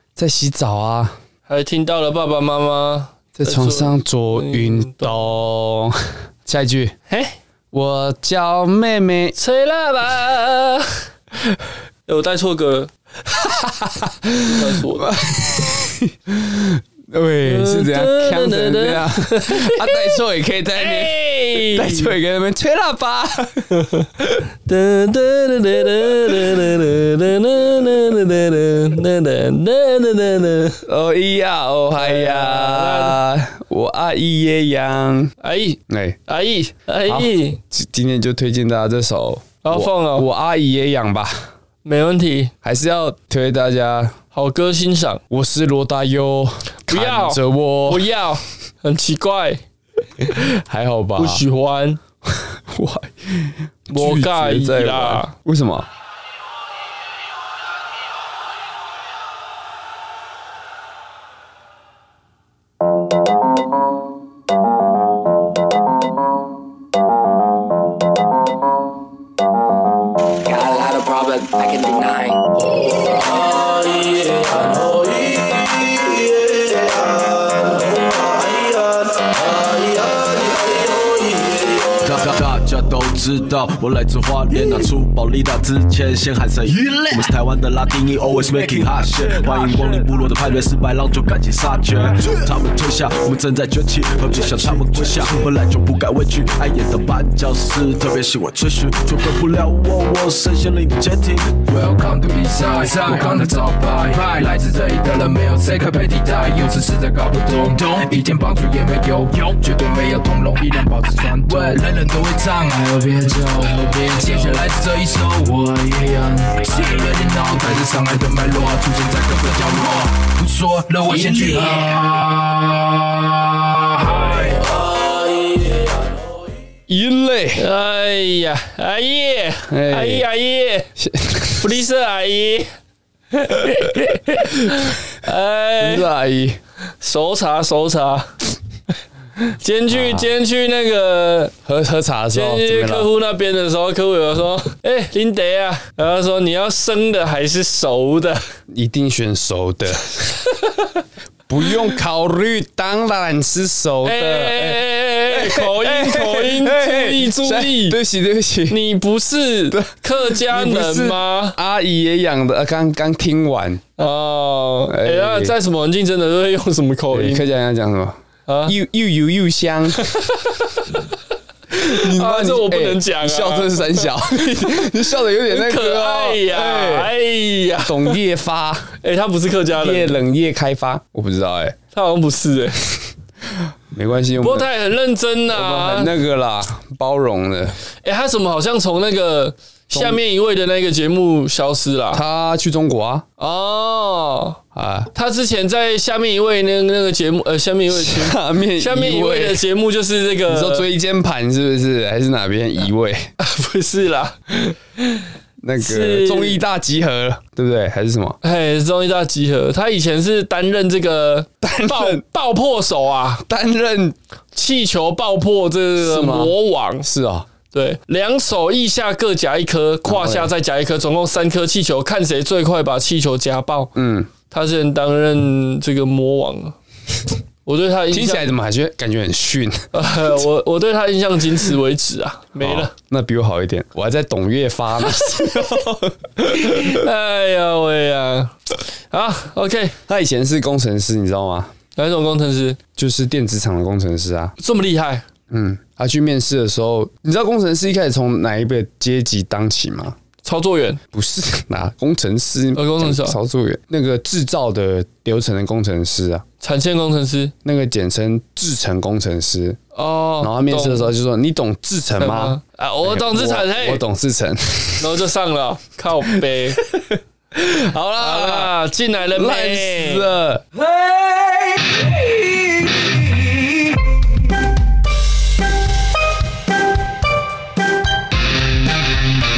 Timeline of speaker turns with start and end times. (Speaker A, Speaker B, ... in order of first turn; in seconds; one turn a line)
Speaker A: 0.2-1.2
Speaker B: 1.5-5.2
Speaker A: 3.4-7.0
Speaker B: 7.1-7.4
Speaker A: 7.7-9.4
Speaker B: 9.4-11.0
Speaker B: 12.1-12.9
Speaker A: 13.3-24.4
Speaker B: 14.5-15.1
Speaker B: 17.4-20.2
Speaker B: 20.7-22.1
Speaker B: 24.6-30.9
Speaker A: 30.9-35.3
Speaker B: 32.0-33.2
Speaker B: 35.4-37.6
Speaker A: 35.9-36.2
Speaker A: 37.1-41.5
Speaker B: 39.6-40.3
Speaker B: 41.8-42.5
Speaker A: 42.6-44.2
Speaker B: 44.3-45.2
Speaker A: 45.3-48.1
Speaker B: 46.9-49.6
Speaker A: 50.4-51.4
Speaker B: 51.2-52.0
Speaker A: 52.3-55.9
Speaker B: 53.9-55.3
Speaker C: 70.5-72.5
Speaker D: 82.0-101.7
Speaker E: 101.7-122.2
Speaker E: 123.8-124.7
Speaker A: 126.9-127.7
Speaker B: 127.6-130.9
Speaker A: 129.7-130.3
Speaker A: 131.0-131.7
Speaker B: 131.6-132.7
Speaker B: 133.3-136.1
Speaker A: 134.4-134.9
Speaker A: 135.8-136.6
Speaker B: 137.0-138.3
Speaker B: 139.5-141.5
Speaker A: 139.9-140.3
Speaker A: 141.7-143.1
Speaker B: 142.3-148.4
Speaker A: 148.7-150.3
Speaker A: 151.5-158.8
Speaker B: 154.0-158.0
Speaker B: 158.7-161.6
Speaker A: 159.7-163.8
Speaker B: 164.0-167.4
Speaker A: 164.9-165.6
Speaker A: 167.1-170.0
Speaker B: 168.5-168.8
Speaker B: 170.0-170.9
Speaker A: 171.7-177.1
Speaker B: 171.8-174.9
Speaker B: 175.5-178.2
Speaker A: 177.8-178.9
Speaker B: 179.0-180.2
Speaker A: 179.8-181.8
Speaker B: 181.9-183.0
Speaker A: 183.9-184.7
Speaker B: 184.4-186.1
Speaker A: 185.5-187.8
Speaker B: 188.0-192.2
Speaker A: 189.9-190.2
Speaker A: 192.1-193.3
Speaker B: 193.4-194.6
Speaker A: 194.8-195.1
Speaker B: 195.1-200.9
Speaker A: 197.9-199.6
Speaker A: 200.5-203.3
Speaker B: 203.4-205.2
Speaker A: 205.6-208.4
Speaker B: 205.8-206.6
Speaker B: 208.4-213.4
Speaker A: 211.6-212.2
Speaker A: 213.4-214.2
Speaker B: 214.5-217.1
Speaker A: 216.0-217.5
Speaker B: 217.7-223.9
Speaker A: 220.1-220.5
Speaker A: 223.9-224.3
Speaker B: 224.5-226.8
Speaker B: 227.7-228.5
Speaker A: 228.1-229.9
Speaker B: 229.9-232.9
Speaker A: 232.6-237.0
Speaker B: 236.4-238.6
Speaker B: 239.1-240.0
Speaker A: 240.1-241.7
Speaker B: 242.0-242.8
Speaker A: 243.0-244.6
Speaker B: 244.6-245.2
Speaker A: 245.5-250.2
Speaker B: 250.4-251.0
Speaker A: 251.1-256.4
Speaker B: 252.8-253.4
Speaker B: 256.6-257.5
Speaker A: 257.6-259.8
Speaker B: 259.9-261.1
Speaker A: 260.4-265.1
Speaker B: 262.2-264.0
Speaker B: 265.0-266.8
Speaker A: 266.8-268.7
Speaker B: 268.2-270.3
Speaker A: 269.3-270.7